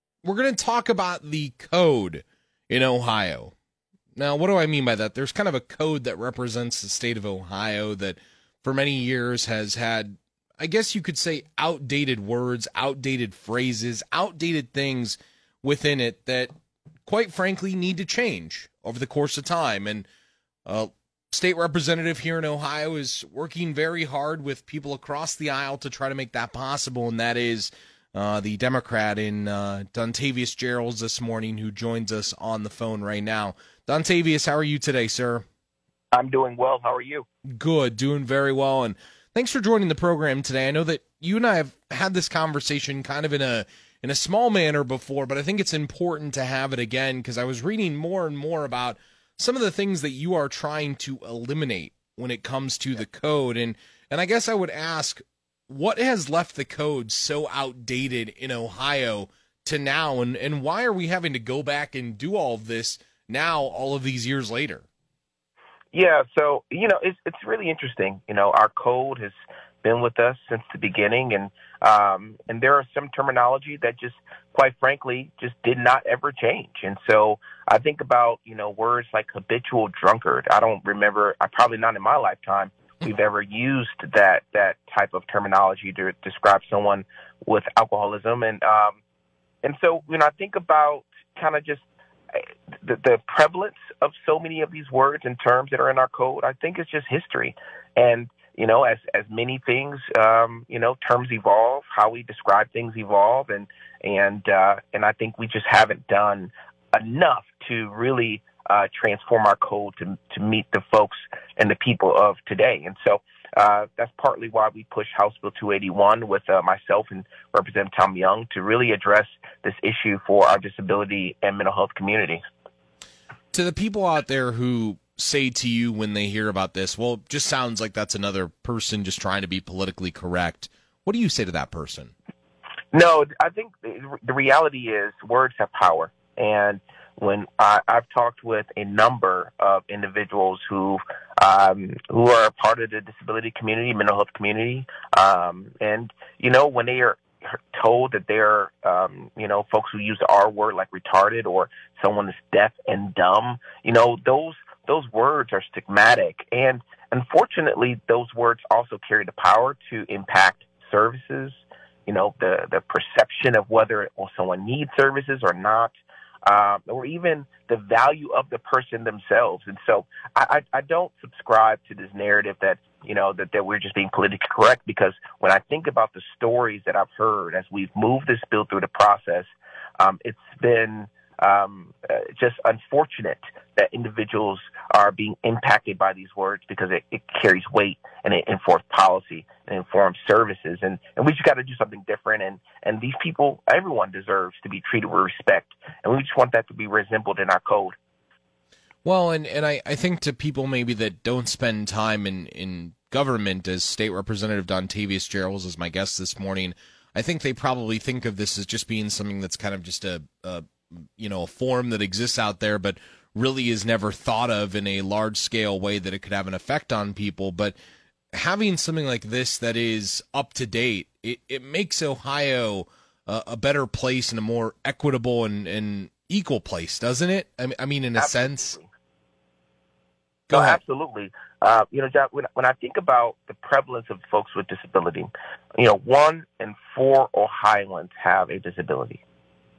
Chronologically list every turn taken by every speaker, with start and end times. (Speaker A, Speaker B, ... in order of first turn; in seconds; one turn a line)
Speaker A: 0.2-3.5
Speaker A: 4.2-16.5
Speaker A: 17.1-20.1
Speaker A: 20.6-35.4
Speaker B: 36.1-37.2
Speaker A: 37.5-64.8
Speaker B: 65.9-89.0
Speaker B: 89.6-122.4
Speaker A: 123.5-132.1
Speaker B: 132.9-165.9
Speaker B: 166.4-197.9
Speaker A: 199.0-210.6
Speaker A: 211.2-217.8
Speaker A: 218.3-228.8
Speaker B: 228.2-228.9
Speaker A: 230.5-230.8
Speaker B: 230.5-239.2